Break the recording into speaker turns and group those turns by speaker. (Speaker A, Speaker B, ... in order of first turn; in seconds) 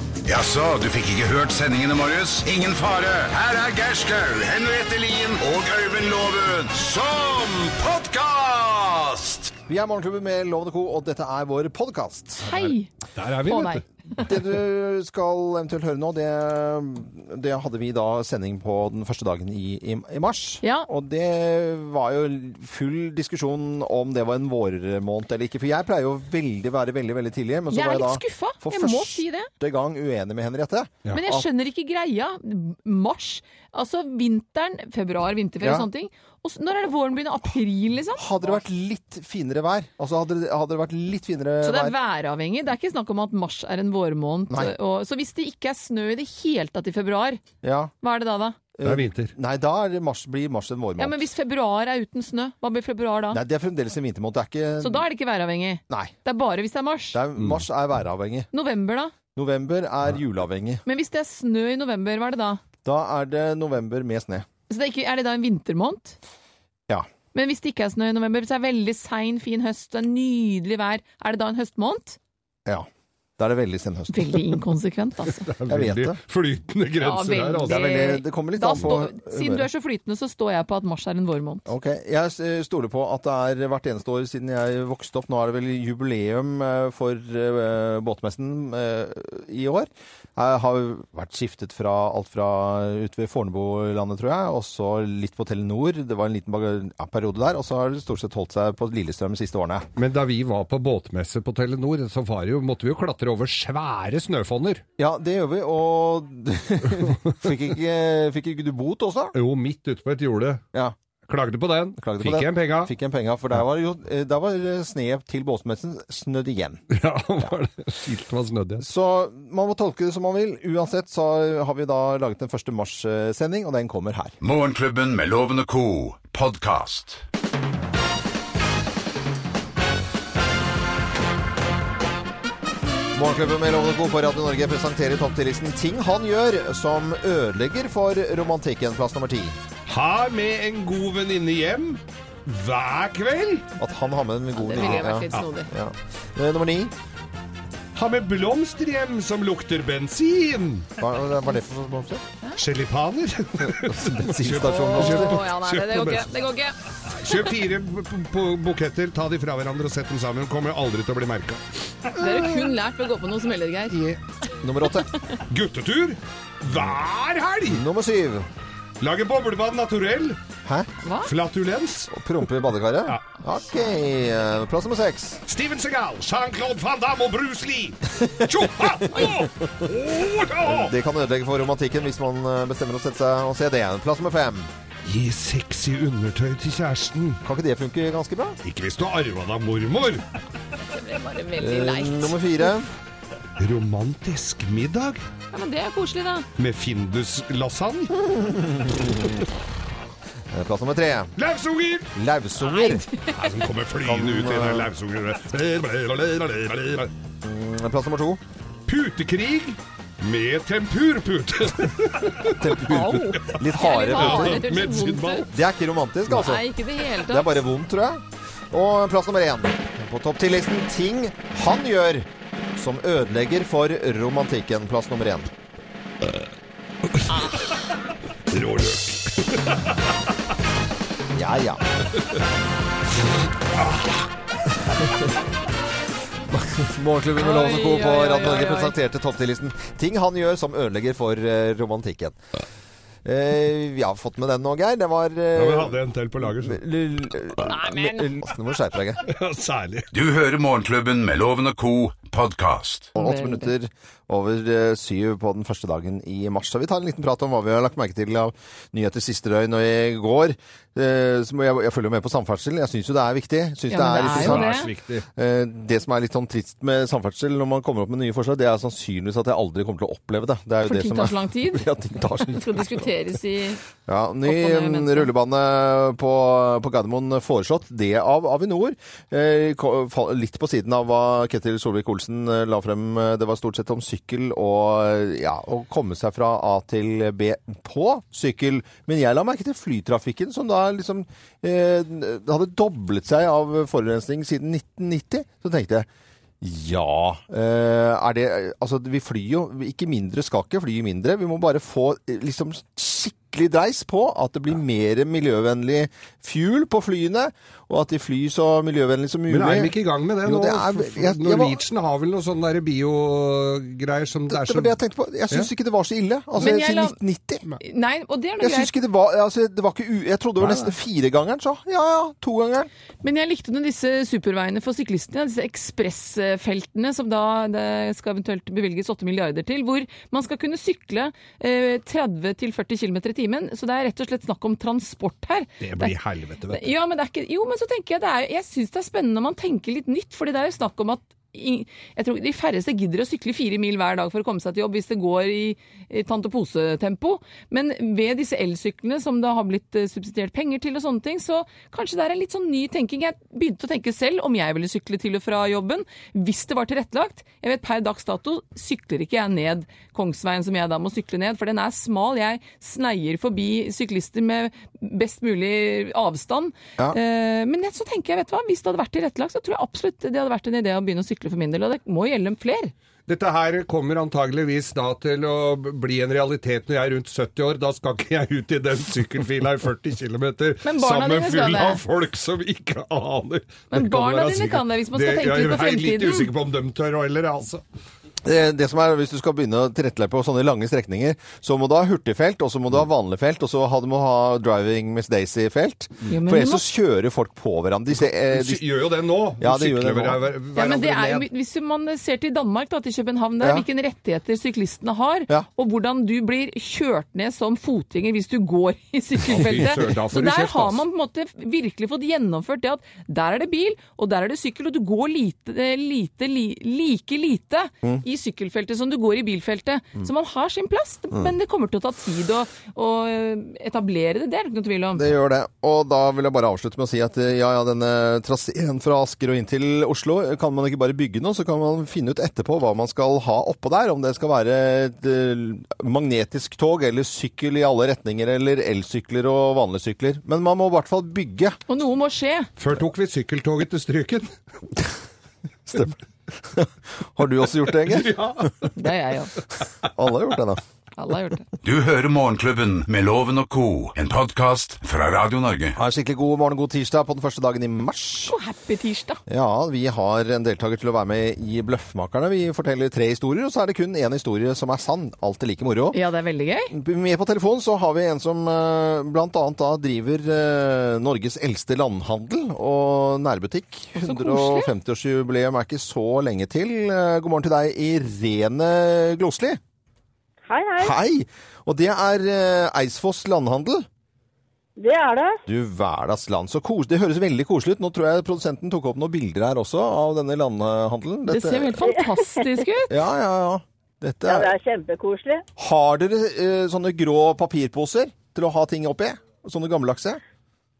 Speaker A: 0.3-9.5, 124.4-127.2, 250.1-253.1, 451.8-456.0
Speaker B: 9.7-12.7, 14.2-31.4, 38.2-42.0, 47.6-47.9, 48.8-51.2, 53.3-55.0, 55.9-56.1, 57.1-58.5, 59.4-60.8, 62.9-64.5, 73.4-74.5, 75.7-76.2, 77.7-79.7, 81.7-99.9, 105.0-109.3, 112.0-116.8, 118.8-124.4, 133.1-139.6, 143.8-146.9, 151.0-152.2, 153.9-155.4, 164.6-165.1, 166.7-166.9, 167.7-168.5, 172.1-175.4, 180.7-184.7, 187.4-188.6, 191.6-192.9, 198.3-199.4, 200.5-201.3, 202.2-203.1, 204.0-204.9, 207.4-208.4, 212.6-214.7, 215.5-216.7, 217.2-225.5, 231.3-231.9, 236.5-242.4, 243.2-249.2, 253.2-273.0, 274.1-296.1, 296.6-309.9, 310.4-311.8, 314.5-317.6, 318.6-322.9, 388.4-398.9, 399.6-400.5, 403.6-403.9, 425.2-441.8, 445.9-446.2, 446.7-448.7, 450.1-450.8, 456.0-458.6, 459.5-466.2, 466.9-479.8, 481.0-484.1, 485.7-492.1, 493.1-494.7, 495.8-500.4
Speaker C: 12.4-12.9, 13.4-14.2, 20.6-20.9, 27.7-29.5, 31.1-38.4, 41.6-47.4, 48.0-48.6, 51.0-53.4, 54.8-57.2, 58.5-59.1, 60.9-62.6, 64.7-66.2, 67.3-72.2, 74.1-75.5, 77.0-81.7, 144.6-145.7, 154.7-157.5, 162.2-164.0, 171.0-171.3, 190.9-192.7, 195.5-196.5, 202.6-203.5, 212.8-215.5, 216.3-217.6, 237.4-238.9, 247.7-248.2, 253.2-253.7, 263.9-264.9, 270.9-273.8, 274.5-275.3, 316.6-317.2, 317.8-318.9, 323.2-336.1, 336.7-372.9, 380.8-382.0, 383.9-386.5, 396.3-396.8, 400.8-425.3, 441.9-442.7, 449.0-449.5, 451.2-451.6, 458.5-459.4, 466.1-466.9, 474.2-474.9, 491.5-493.1
Speaker D: 13.2-13.8, 48.8-49.3, 75.5-77.8, 100.0-104.8, 109.4-110.6, 111.3-112.9, 116.9-118.8, 139.9-143.7, 147.9-150.9, 152.6-156.3, 157.1-162.1, 163.9-164.2, 165.5-167.8, 169.0-170.4, 171.2-172.1, 175.5-180.9, 185.1-187.4, 188.6-190.2, 193.6-195.2, 196.6-198.2, 201.4-202.1, 203.3-207.1, 208.9-215.5, 227.1-227.9, 228.5-230.3, 233.8-234.2, 245.6-246.8, 249.2-250.1, 264.3-265.2, 309.5-314.9, 320.6-320.9, 335.8-336.9, 373.3-387.8, 398.2-401.5, 409.4-411.0, 442.8-444.6, 448.1-448.9
Speaker E: 480.7-481.2, 485.0-485.6, 494.4-495.6